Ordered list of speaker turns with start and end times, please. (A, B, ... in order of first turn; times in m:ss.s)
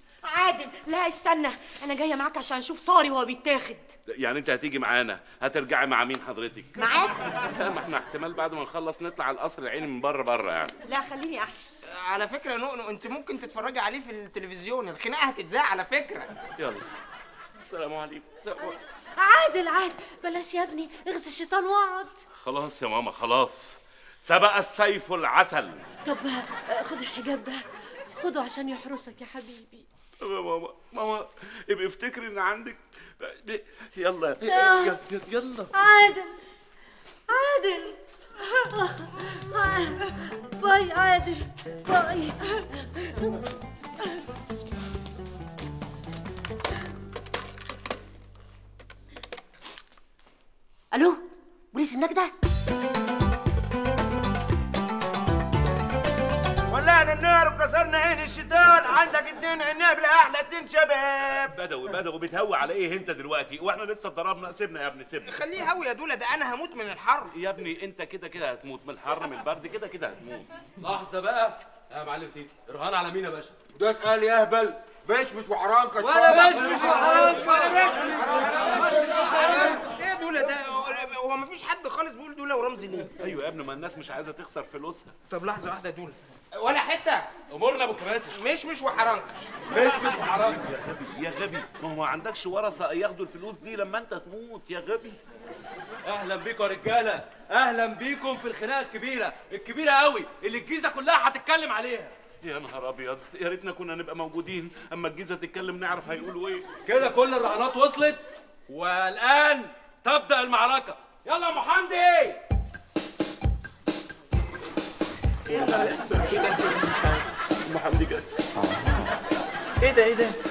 0:00.2-0:03.9 A
0:04.1-0:10.7 B
0:06.8-0:07.2 A
0:10.9-0:11.7 A
0:11.8-0:16.3 C
0:16.6-0:16.8 B
0:17.6-0:18.8 B
0:19.2-0:22.2 D
0:22.4-0:25.8 B
0:26.0-0:29.8 D
0:30.2-0:35.7 B
0:34.4-0:35.0 D
0:35.7-0:36.4 D
0:37.3-0:38.0 D
0:38.6-0:43.4 D
0:50.9-0:51.2 D
0:51.7-0:52.3 D
0:56.7-1:01.5 E
1:01.4-1:05.4 B
1:05.2-1:07.3 C
1:07.3-1:10.5 B
1:10.8-1:13.6 F
1:13.7-1:19.0 E
1:16.0-1:19.8 F
1:16.3-1:23.1 C
1:23.2-1:25.1 B
1:25.3-1:27.3 C
1:27.5-1:28.4 F
1:28.3-1:29.3 C
1:29.7-1:30.6 F
1:29.7-1:35.2 B
1:36.0-1:42.2 F
1:42.4-1:46.7 B
1:46.8-1:52.4 F
1:55.5-1:56.7 B
1:55.5-1:57.2 C
1:57.6-1:58.2 B
1:59.8-2:00.3 B